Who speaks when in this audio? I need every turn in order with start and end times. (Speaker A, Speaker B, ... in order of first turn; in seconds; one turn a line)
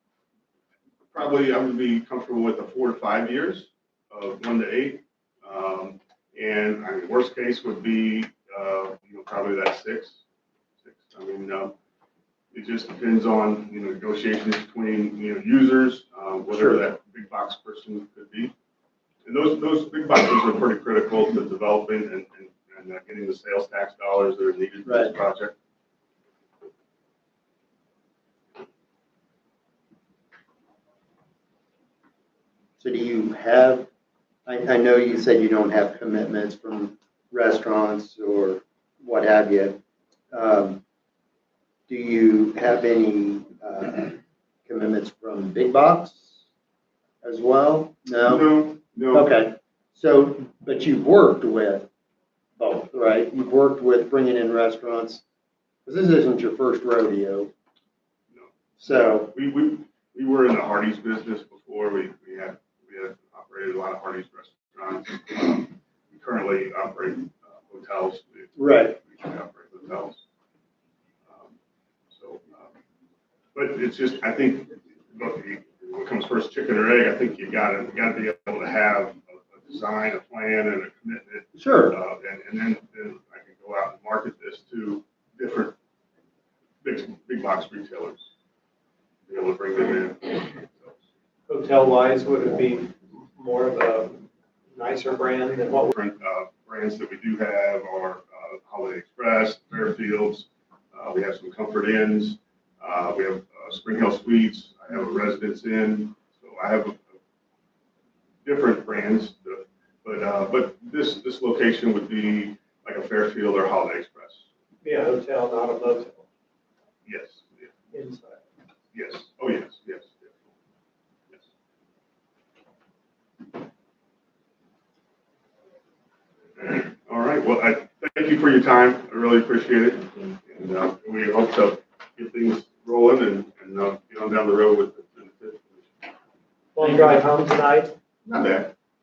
Speaker A: 1.1-10.2
Speaker A: 10.8-11.7
Speaker A: 12.5-18.5
Speaker B: 16.5-16.8
Speaker A: 19.2-25.5
Speaker B: 24.9-25.1
Speaker B: 32.8-33.9
Speaker B: 34.5-39.8
Speaker B: 40.3-40.8
Speaker B: 41.9-46.4
Speaker B: 47.2-51.9
Speaker A: 48.3-49.3
Speaker B: 52.6-55.2
Speaker B: 55.8-57.5
Speaker B: 58.8-59.3
Speaker A: 59.2-70.2
Speaker B: 68.5-69.0
Speaker A: 71.3-71.5
Speaker A: 72.1-72.7
Speaker A: 73.5-85.7
Speaker B: 81.5-82.0
Speaker A: 86.8-88.2
Speaker A: 89.3-91.0
Speaker C: 91.5-96.0
Speaker A: 95.9-107.2
Speaker A: 108.4-114.4
Speaker C: 114.8-116.3
Speaker A: 117.0-117.8
Speaker C: 117.9-118.4
Speaker A: 118.9-120.5
Speaker A: 126.6-135.9
Speaker C: 136.7-137.9
Speaker A: 138.2-138.7